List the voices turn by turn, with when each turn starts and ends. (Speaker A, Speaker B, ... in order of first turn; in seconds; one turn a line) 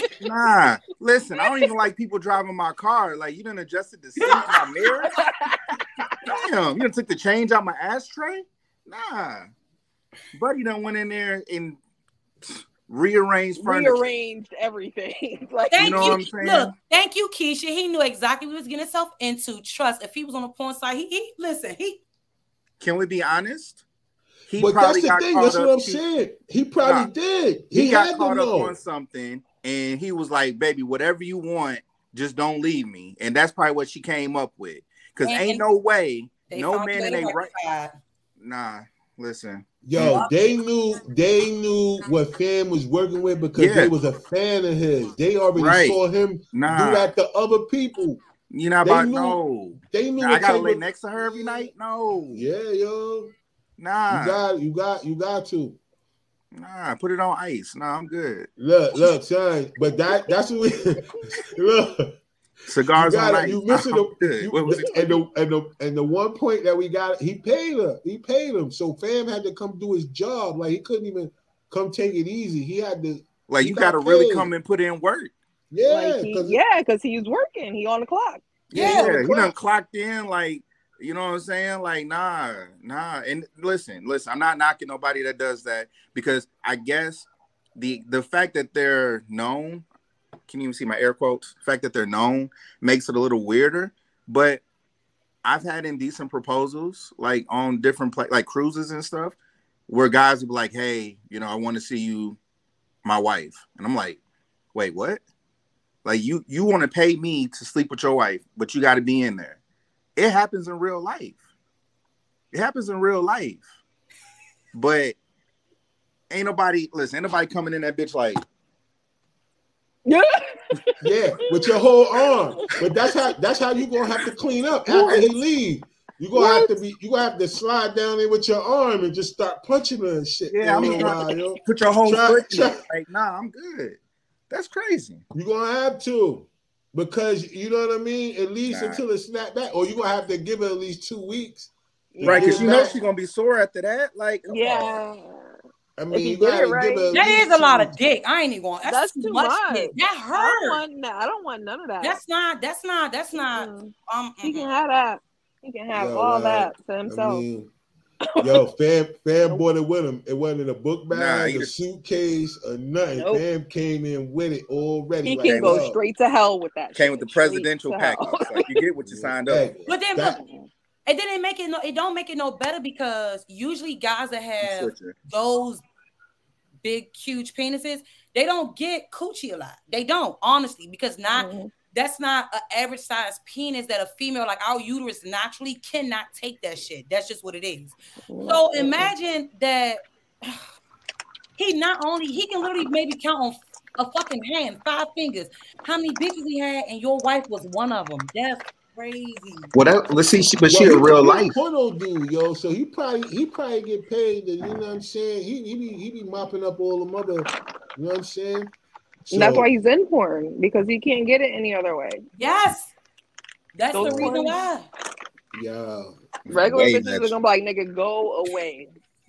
Speaker A: 0.2-5.1
Speaker B: 1.4-1.7
Speaker C: 4.2-5.1
Speaker B: 5.2-5.6
Speaker A: 6.2-9.5
Speaker A: 10.3-11.8
Speaker A: 12.4-14.1
Speaker B: 13.6-16.2
Speaker C: 15.7-22.0
Speaker A: 15.8-16.7
Speaker A: 22.8-23.8
Speaker A: 24.5-26.0
Speaker D: 24.5-28.8
Speaker A: 26.8-27.1
Speaker A: 27.7-37.5
Speaker C: 35.2-35.6
Speaker C: 36.5-38.0
Speaker A: 38.4-40.2
Speaker D: 39.8-48.2
Speaker C: 40.0-40.5
Speaker A: 43.6-43.9
Speaker A: 45.5-46.0
Speaker A: 46.5-47.1
Speaker A: 48.5-52.5
Speaker D: 48.8-49.4
Speaker D: 49.9-51.7
Speaker D: 52.3-53.3
Speaker A: 53.8-54.4
Speaker D: 54.1-55.8
Speaker A: 56.5-58.5
Speaker D: 58.6-62.2
Speaker A: 62.7-65.2
Speaker D: 63.0-74.5
Speaker A: 73.5-75.3
Speaker D: 75.7-76.6
Speaker B: 75.9-78.4
Speaker A: 78.7-89.8
Speaker D: 78.7-79.5
Speaker C: 78.8-79.2
Speaker A: 90.5-94.6
Speaker A: 95.4-99.4
Speaker A: 99.9-102.4
Speaker A: 103.0-104.2
Speaker A: 104.7-105.2
Speaker A: 106.0-109.6
Speaker A: 110.2-111.4
Speaker A: 112.5-113.6
Speaker A: 114.7-115.2
Speaker A: 116.3-118.4
Speaker B: 120.1-123.2
Speaker D: 121.0-132.8
Speaker B: 126.3-126.8
Speaker A: 130.5-134.0
Speaker A: 134.5-135.2
Speaker D: 135.3-141.7
Speaker A: 138.7-139.0
Speaker B: 142.1-143.0
Speaker A: 142.2-145.0
Speaker D: 142.2-143.0
Speaker B: 144.5-145.5
Speaker D: 146.0-148.0
Speaker B: 146.1-147.2
Speaker C: 147.1-150.8
Speaker B: 148.8-152.2
Speaker C: 152.0-154.7
Speaker B: 153.3-157.4
Speaker D: 155.9-157.7
Speaker B: 158.4-158.7
Speaker D: 158.4-166.0
Speaker A: 161.1-161.7
Speaker B: 163.2-163.4
Speaker B: 165.2-168.8
Speaker A: 165.5-165.9
Speaker A: 166.9-169.7
Speaker D: 169.1-170.4
Speaker C: 169.9-170.4
Speaker B: 170.4-170.7
Speaker C: 171.1-175.8
Speaker A: 174.6-175.2
Speaker C: 176.8-187.9
Speaker B: 181.3-181.7
Speaker B: 188.3-189.1
Speaker C: 188.5-190.6
Speaker C: 191.6-199.7
Speaker A: 199.7-201.6
Speaker D: 200.7-208.7
Speaker D: 209.3-209.7
Speaker B: 209.3-212.2
Speaker C: 212.4-212.9
Speaker C: 213.8-214.9
Speaker B: 213.9-214.7
Speaker D: 214.0-214.3
Speaker D: 215.5-216.2
Speaker A: 216.5-217.3
Speaker B: 216.5-218.9